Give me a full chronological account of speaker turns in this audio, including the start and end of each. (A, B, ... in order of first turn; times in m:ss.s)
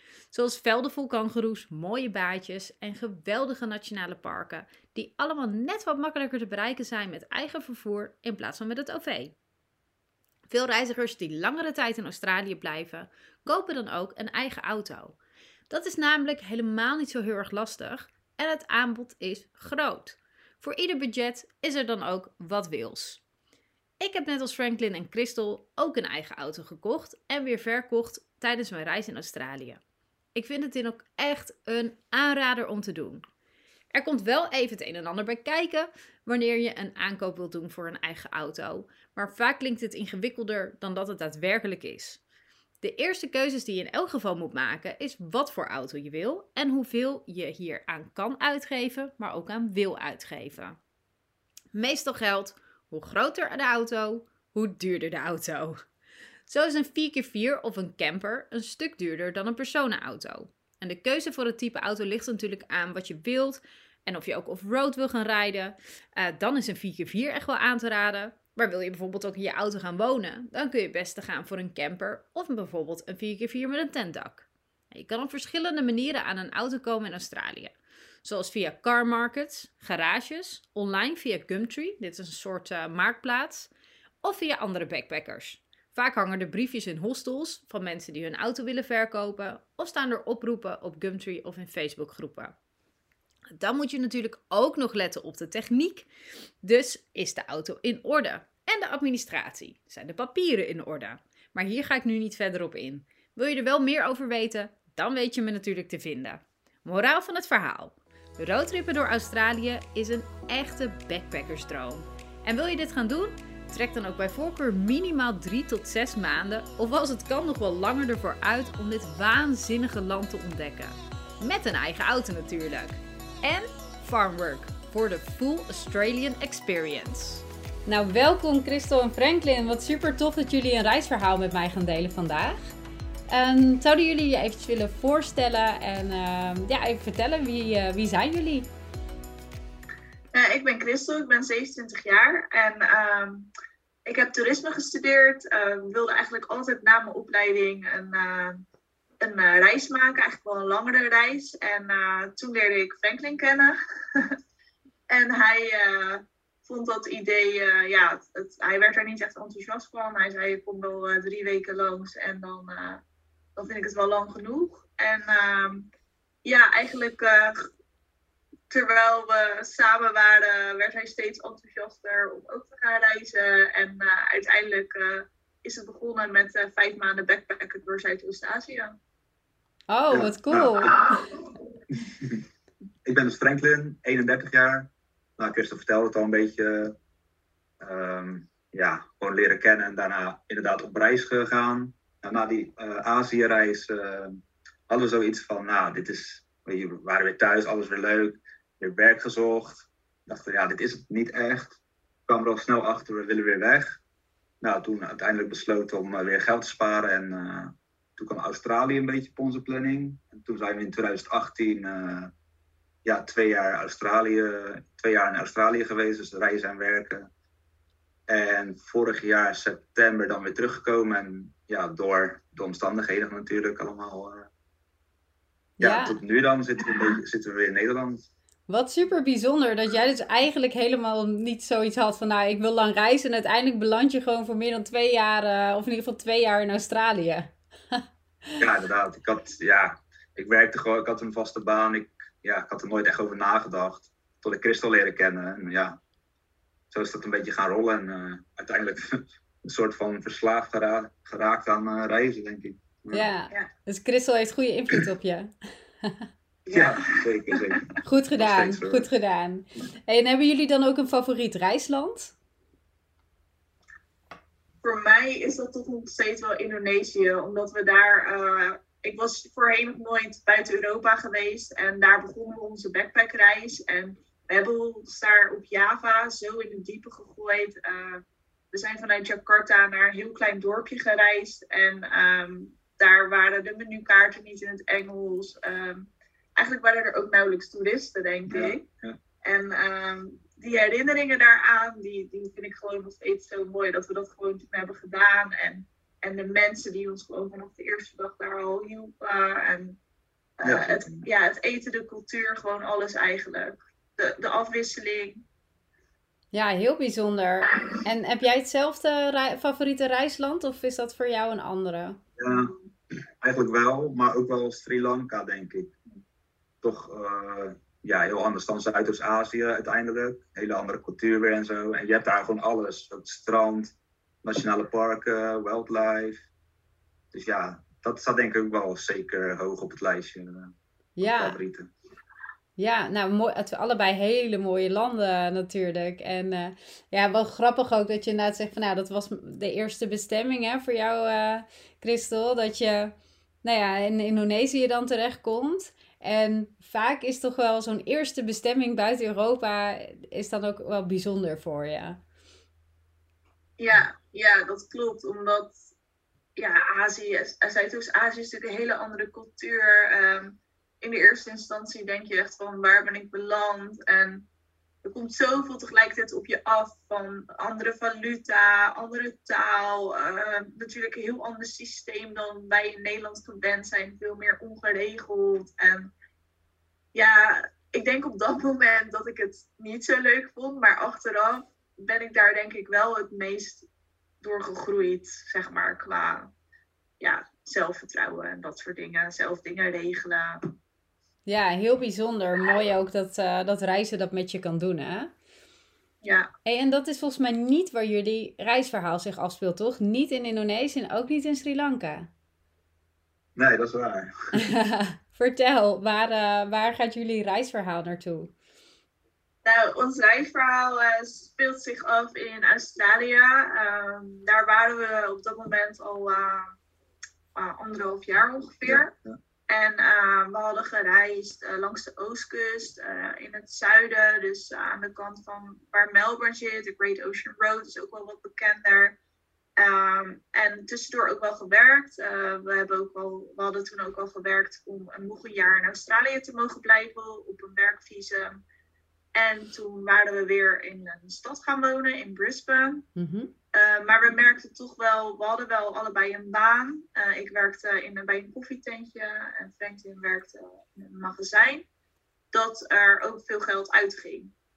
0:00.3-0:09.3 A
0:10.5-0:15.2 A
0:15.7-0:23.2 A
0:24.0-0:29.8 A
0:30.4-0:33.2 A
0:33.9-0:42.2 A
0:42.8-0:50.8 A
0:51.7-0:55.8 A
0:56.5-1:23.7 A
1:24.2-1:32.5 A
1:33.5-1:36.1 A
1:36.6-2:12.8 A
2:13.3-2:18.7 A
2:20.3-2:23.5 B
2:24.1-2:28.6 B
2:29.2-2:34.4 B
2:35.1-2:43.0 B
2:43.6-2:45.9 B
2:46.4-2:47.7 B
2:48.7-2:59.0 B
2:59.9-3:01.1 A
3:00.1-3:01.0 C
3:02.1-3:02.4 C
3:03.1-3:07.0 C
3:07.8-3:24.0 C
3:24.6-3:32.3 C
3:33.0-3:37.3 C
3:38.3-3:44.5 C
3:45.8-3:46.2 A
3:45.8-3:48.2 C
3:48.7-3:58.0 A
3:58.6-4:06.0 C
4:06.9-4:13.3 C
4:13.1-4:15.5 A
4:16.7-4:17.8 B
4:16.7-4:19.1 C
4:18.0-4:22.4 A
4:24.8-4:48.8 B
4:48.5-4:49.2 C
4:49.4-5:00.0 B
5:00.6-5:05.4 B
5:00.6-5:01.3 C
5:06.5-5:12.2 A
5:12.4-5:12.7 C
5:13.4-5:15.9 C
5:16.8-5:26.4 C
5:27.3-5:31.9 C
5:31.2-5:31.6 A
5:32.8-5:52.2 A
5:53.8-5:55.8 B
5:56.6-6:04.4 B
6:05.0-6:16.1 B
6:17.1-6:23.9 B
6:24.4-6:26.5 B
6:27.2-6:30.7 B
6:31.5-6:35.3 A
6:36.2-6:36.5 B
6:36.6-6:42.3 A
6:43.6-6:44.3 C
6:44.5-6:48.5 A
6:49.6-6:56.8 B
6:57.6-6:59.1 B
6:58.8-6:59.4 C
6:59.7-7:09.2 B
7:09.8-7:18.6 B
7:19.4-7:23.1 B
7:23.2-7:23.5 A
7:23.7-7:31.8 B
7:32.5-7:34.5 B